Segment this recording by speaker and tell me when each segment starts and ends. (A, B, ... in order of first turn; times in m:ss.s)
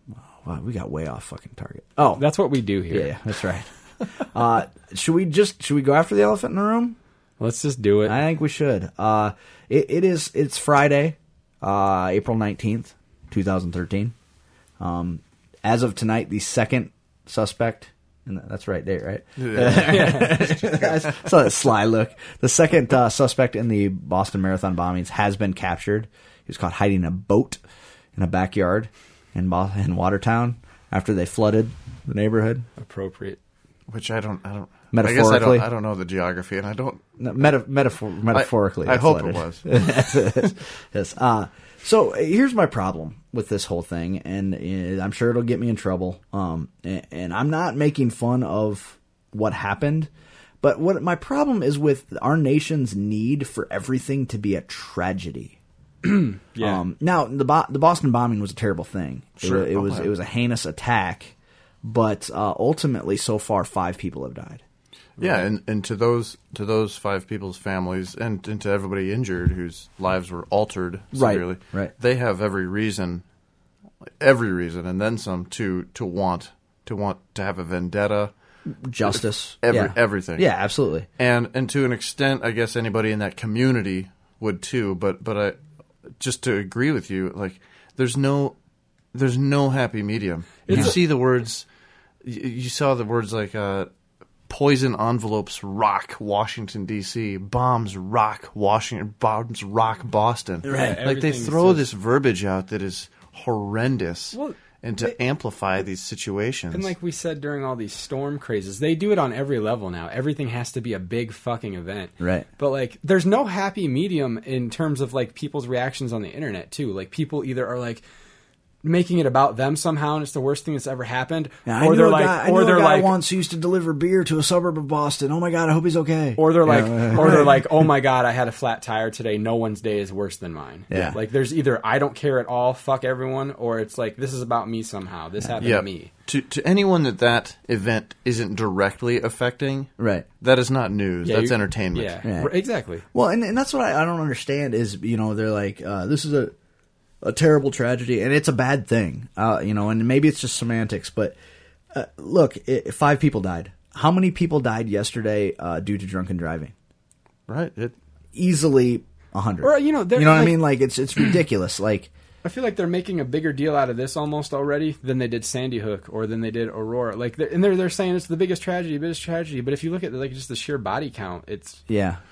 0:00.2-0:02.2 A
0:02.1-0:03.2 B
0:02.9-0:07.0 A
0:07.4-0:08.2 B
0:08.0-0:14.2 A
0:14.8-0:27.6 A
0:19.4-0:21.1 C
0:19.7-0:20.6 B
0:28.2-0:32.7 A
0:32.8-0:33.4 B
0:33.9-0:37.1 C
0:34.9-0:35.7 A
0:37.2-0:50.1 A
0:38.3-0:39.7 C
0:50.6-0:55.6 A
0:56.0-0:56.8 B
0:56.6-1:04.6 A
0:59.4-1:00.1 C
1:05.2-1:05.5 B
1:05.2-1:13.2 C
1:11.1-1:11.9 A
1:14.1-1:18.3 C
1:18.7-1:21.1 A
1:19.1-1:20.5 C
1:21.2-1:25.6 C
1:26.2-1:28.6 C
1:29.1-1:31.7 C
1:30.7-1:31.0 B
1:30.7-1:31.0 A
1:32.2-1:33.9 C
1:34.5-1:46.9 C
1:40.6-1:41.0 A
1:40.7-1:41.9 B
1:44.3-1:45.1 B
1:46.7-1:58.0 B
1:52.2-1:52.5 A
1:58.8-2:03.2 B
2:01.7-2:07.7 A
2:06.4-2:16.1 B
2:10.9-2:11.2 A
2:15.6-2:22.2 C
2:20.0-2:20.3 A
2:21.2-2:23.0 B
2:22.2-2:22.5 A
2:23.0-2:26.5 A
2:27.2-2:31.4 A
2:31.9-2:36.7 A
2:37.5-2:38.0 C
2:38.4-2:42.1 A
2:39.6-2:40.6 B
2:42.4-2:51.8 B
2:51.9-2:52.2 A